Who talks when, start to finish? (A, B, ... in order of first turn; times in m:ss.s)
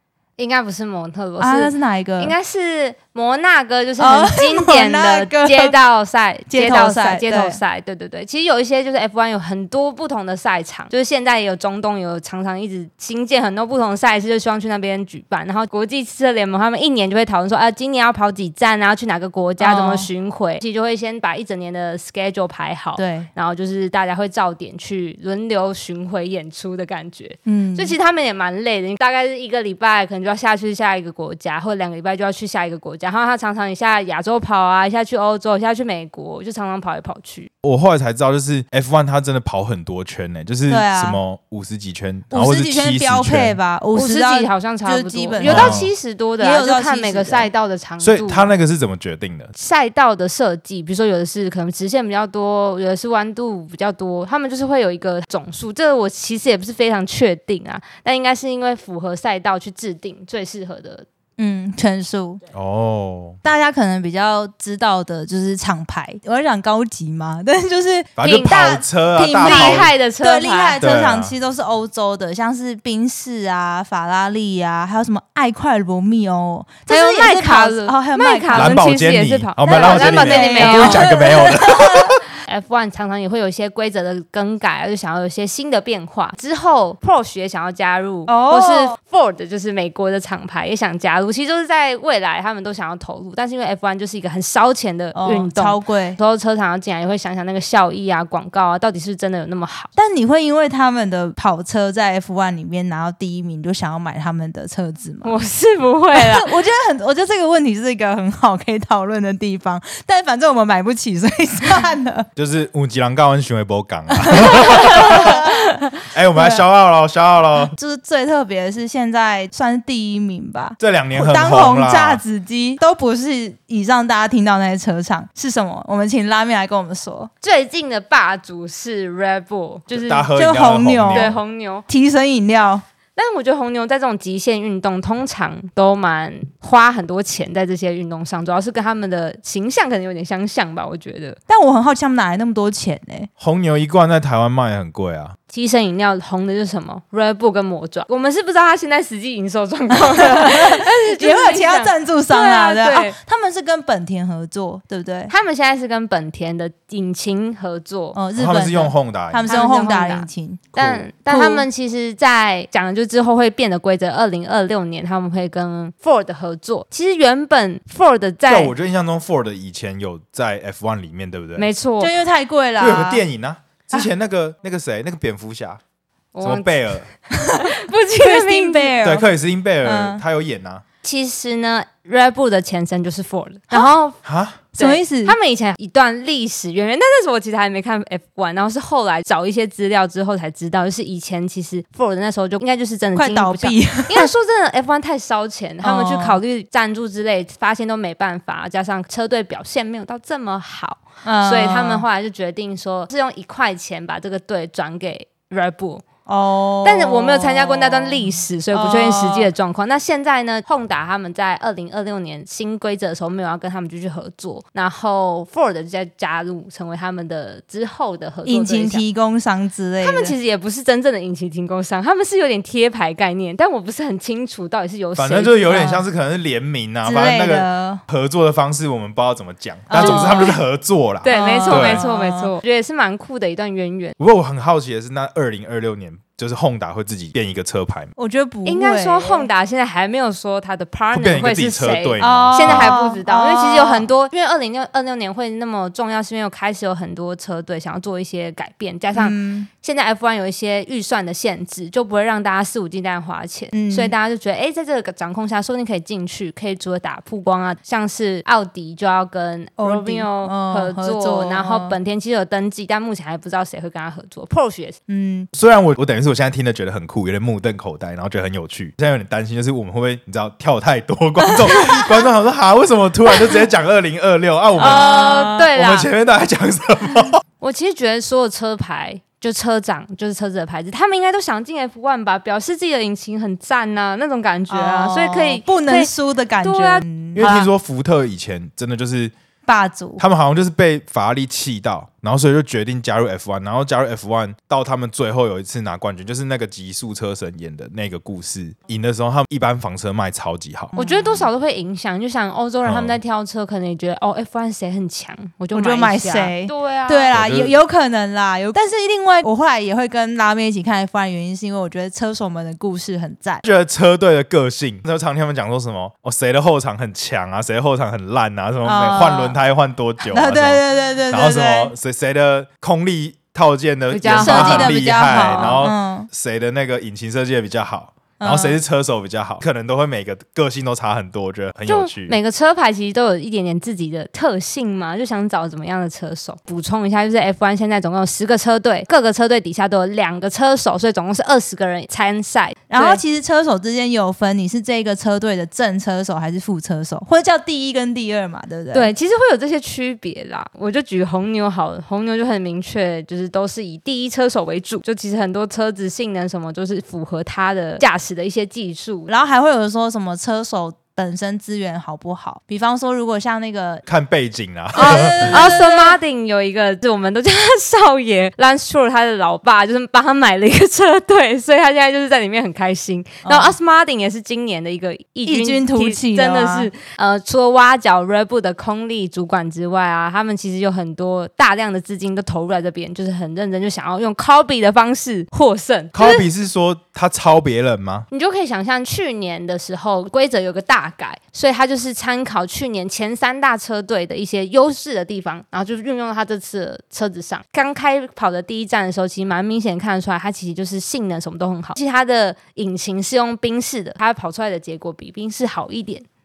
0:00.4-0:37.5 A
0:01.4-0:02.3 B
0:04.0-0:05.7 B
0:06.5-0:07.6 B
0:19.6-0:20.1 B
0:23.0-0:23.3 B
0:27.4-0:28.0 B
0:37.6-0:43.6 C
0:40.7-0:41.2 B
0:42.3-0:47.5 B
0:43.9-0:48.5 A
0:45.4-0:45.9 C
0:48.0-0:49.5 C
0:49.5-1:01.0 A
1:01.4-1:02.4 B
1:02.5-1:03.4 C
1:03.4-1:18.9 B
1:08.2-1:09.9 C
1:08.2-1:08.8 A
1:09.3-1:10.8 A
1:10.8-1:11.3 C
1:16.9-1:21.1 A
1:18.5-1:22.2 C
1:19.6-1:22.2 B
1:22.4-1:39.9 A
1:28.3-1:29.0 B
1:35.1-1:36.2 B
1:40.0-1:45.3 B
1:45.2-1:46.5 A
1:46.1-1:52.3 B
1:52.4-1:57.7 C
1:54.3-1:55.8 B
1:54.6-1:55.6 A
1:56.3-1:56.6 B
1:57.6-2:07.3 B
2:00.8-2:02.2 C
2:07.4-2:10.3 A
2:09.9-2:11.4 C
2:10.3-2:11.4 B
2:11.1-2:11.9 A
2:11.9-2:12.8 B
2:13.2-2:21.4 A
2:21.5-2:23.3 B
2:23.4-2:25.4 C
2:25.5-2:33.1 A
2:30.0-2:35.3 B
2:35.3-2:38.2 A
2:38.1-2:41.6 B
2:38.4-2:39.5 C
2:39.4-2:48.7 A
2:40.8-2:41.0 C
2:48.5-2:51.6 C
2:51.6-2:52.1 A
2:52.0-2:53.2 B
2:52.8-2:55.8 C
2:56.3-2:57.0 A
2:56.4-2:57.0 C
2:57.3-2:59.3 B
2:57.5-2:58.9 A
2:59.0-3:00.8 C
2:59.8-3:00.2 B
3:01.0-3:04.2 A
3:04.2-3:04.6 C
3:04.8-3:26.1 A
3:04.8-3:05.4 B
3:13.1-3:14.3 B
3:15.8-3:16.4 B
3:21.2-3:22.0 B
3:26.2-3:29.5 B
3:26.8-3:39.0 A
3:38.4-3:40.3 B
3:40.0-3:45.6 A
3:45.2-3:52.0 C
3:45.6-3:46.0 B
3:47.0-3:48.0 B
3:49.9-3:50.6 B
3:50.0-3:50.6 A
3:51.2-3:54.1 A
3:51.3-3:52.5 B
3:54.2-3:58.1 C
3:58.2-3:59.5 B
3:58.6-4:25.0 A
4:01.1-4:03.0 C
4:02.2-4:04.1 B
4:09.1-4:09.7 B
4:13.7-4:14.1 B
4:19.8-4:21.9 B
4:25.1-4:25.5 B
4:25.5-4:37.4 C
4:31.5-4:32.1 B
4:34.8-4:36.1 A
4:34.8-4:35.7 B
4:37.6-4:46.1 A
4:44.7-4:47.5 B
4:46.6-4:47.7 A
4:47.3-4:49.3 C
4:49.6-4:50.2 B
4:50.2-5:00.9 C
5:00.9-5:01.5 B
5:01.0-5:07.4 A
5:02.8-5:03.2 C
5:05.7-5:13.6 B
5:07.3-5:07.7 C
5:13.6-5:32.4 C
5:18.8-5:19.6 B
5:20.2-5:21.9 B
5:24.1-5:25.8 A
5:24.3-5:26.3 B
5:28.4-5:28.8 B
5:31.9-5:43.2 A
5:42.9-5:49.1 B
5:48.9-5:59.3 A
5:59.3-6:04.0 B
6:04.1-6:05.6 C
6:04.9-6:06.2 B
6:04.9-6:26.4 A
6:13.4-6:13.7 B
6:15.4-6:16.9 B
6:26.1-6:28.3 C
6:28.3-6:46.2 A